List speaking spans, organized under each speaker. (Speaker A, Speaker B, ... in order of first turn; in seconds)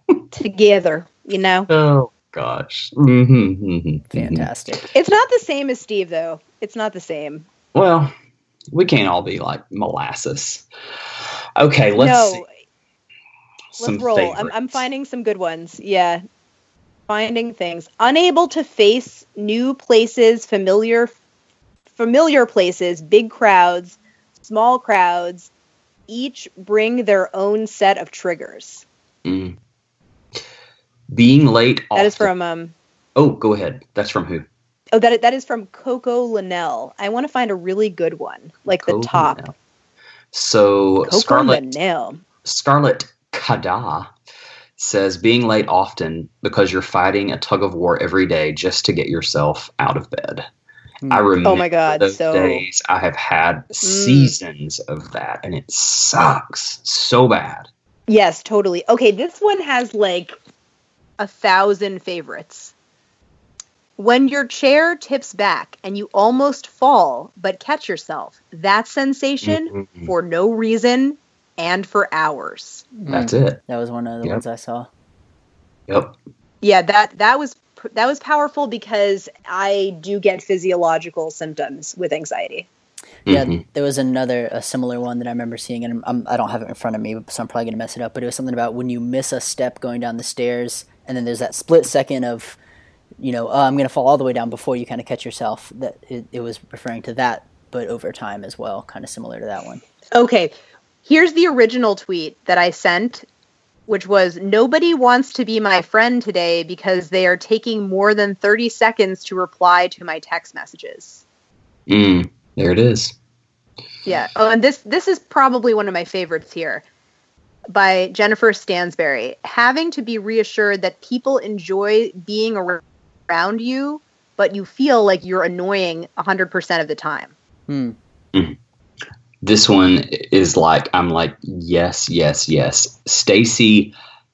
Speaker A: 0.3-1.7, 4.9-7.5, 12.0-12.5, 13.8-16.2, 17.1-21.1, 21.9-25.5, 26.1-28.8, 31.9-32.7, 34.9-39.4, 41.0-42.2, 51.4-52.6, 53.8-54.3, 58.1-60.4, 61.2-62.7, 64.0-72.9, 76.6-82.7, 100.1-100.5, 101.0-103.2, 103.9-111.2, 114.0-116.8, 117.7-127.3
Speaker B: 1.7-4.8, 7.7-8.1, 8.7-10.7, 11.6-12.4, 13.7-14.8, 29.2-29.5, 31.1-32.3, 33.2-34.5, 38.8-39.5, 40.3-41.7, 42.4-44.1, 44.8-50.4, 51.1-57.7, 69.4-70.1, 73.1-73.6, 75.9-76.1, 83.2-83.6, 111.9-113.1, 129.4-133.9
Speaker C: 4.1-4.8, 51.0-51.3, 73.0-74.9, 83.2-92.6, 93.2-99.8, 127.7-128.0